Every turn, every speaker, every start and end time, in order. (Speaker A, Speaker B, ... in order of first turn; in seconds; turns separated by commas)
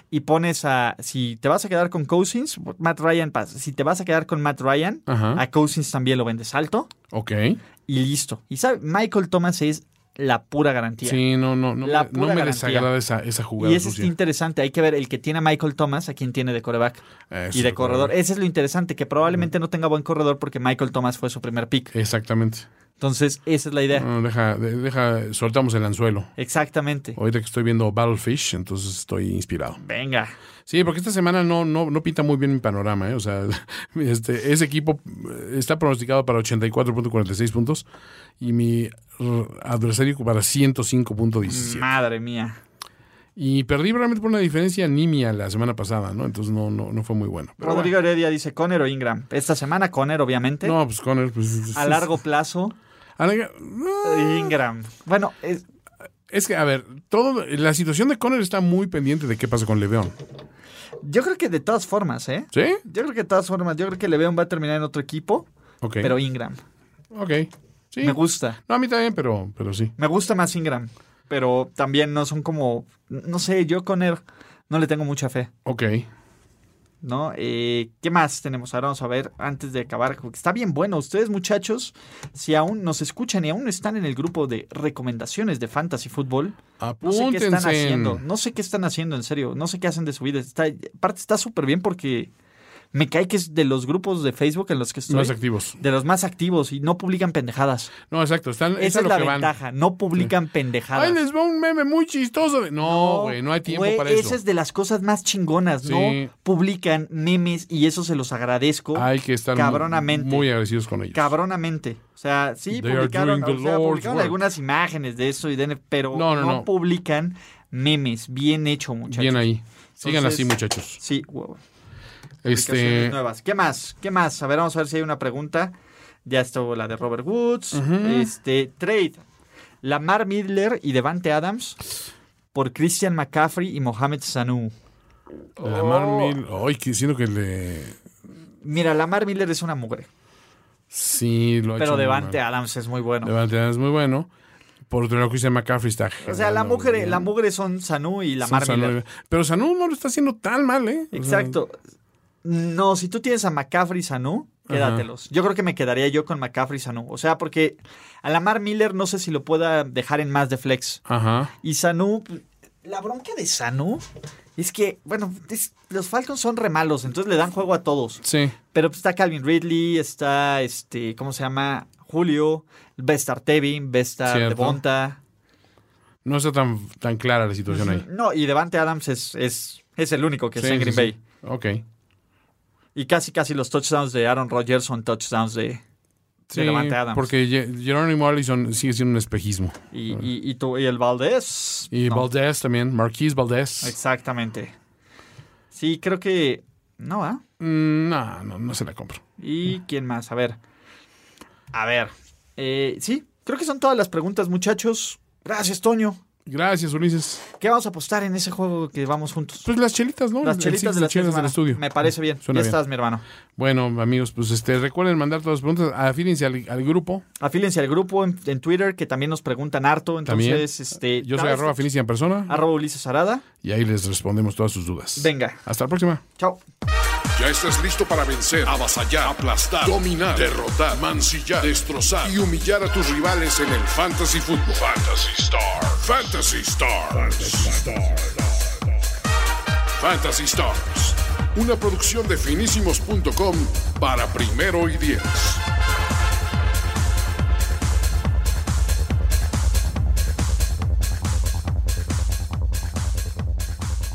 Speaker A: 0.1-6.9, Speaker B: 5.1-5.4, Speaker B: 7.1-7.6, Speaker A: 7.9-11.2, Speaker B: 11.0-14.1, Speaker A: 11.8-12.9, Speaker A: 13.6-21.9, Speaker B: 17.3-18.1, Speaker B: 21.9-22.7, Speaker A: 23.0-24.1, Speaker B: 23.9-26.3, Speaker A: 26.4-27.2, Speaker B: 27.2-29.8, Speaker A: 29.8-30.3, Speaker B: 30.7-37.9, Speaker B: 38.4-41.9, Speaker A: 41.4-42.6, Speaker B: 43.4-48.0, Speaker A: 47.6-50.8, Speaker B: 50.6-52.1, Speaker A: 51.7-52.8, Speaker B: 53.2-54.5, Speaker A: 54.0-55.6, Speaker B: 56.3-60.1, Speaker A: 61.0-65.5, Speaker B: 62.5-62.8, Speaker B: 65.8-66.1, Speaker A: 66.0-66.6, Speaker B: 67.1-69.9, Speaker A: 68.0-68.6, Speaker A: 70.0-75.5, Speaker B: 75.7-76.1, Speaker A: 77.0-92.3, Speaker B: 86.8-88.2, Speaker A: 92.9-97.9, Speaker B: 95.1-95.8, Speaker B: 98.1-99.5, Speaker A: 98.8-101.2, Speaker B: 100.9-104.4, Speaker A: 102.8-110.5, Speaker B: 105.8-106.3, Speaker B: 109.0-111.3, Speaker A: 111.1-119.4, Speaker B: 112.7-114.4, Speaker B: 116.1-116.7, Speaker B: 119.1-121.0, Speaker A: 120.0-121.6, Speaker B: 122.4-123.2, Speaker A: 122.5-129.2, Speaker B: 127.7-128.3, Speaker A: 129.8-131.8, Speaker A: 132.5-134.7, Speaker A: 135.6-136.4, Speaker B: 135.6-138.0, Speaker A: 138.6-140.1, Speaker B: 140.9-142.4, Speaker A: 141.8-143.3, Speaker B: 143.2-144.3, Speaker B: 144.9-147.3, Speaker A: 146.2-148.9, Speaker B: 148.4-151.6, Speaker A: 151.1-151.8, Speaker A: 152.4-161.0, Speaker B: 154.7-155.1, Speaker B: 161.1-161.5, Speaker A: 161.6-164.1, Speaker A: 164.6-175.2, Speaker B: 168.2-168.6, Speaker B: 174.2-174.8, Speaker B: 176.2-178.1, Speaker A: 177.7-181.2, Speaker B: 180.6-181.8, Speaker A: 182.9-185.8, Speaker B: 186.5-190.2, Speaker A: 186.5-187.3, Speaker A: 189.9-192.3, Speaker B: 191.9-193.9, Speaker A: 193.8-194.7, Speaker A: 195.7-197.4, Speaker B: 197.6-199.2, Speaker A: 199.4-200.6, Speaker A: 201.7-206.2, Speaker B: 206.5-207.4, Speaker A: 207.6-209.7, Speaker B: 209.7-212.8, Speaker A: 210.4-213.2, Speaker B: 213.6-217.2, Speaker A: 217.4-221.9, Speaker B: 220.2-222.7, Speaker A: 222.5-223.4, Speaker B: 223.6-226.2, Speaker A: 225.2-225.6, Speaker C: 227.3-238.2, Speaker B: 227.4-235.0, Speaker B: 236.0-238.2, Speaker C: 240.0-245.6, Speaker B: 240.0-240.9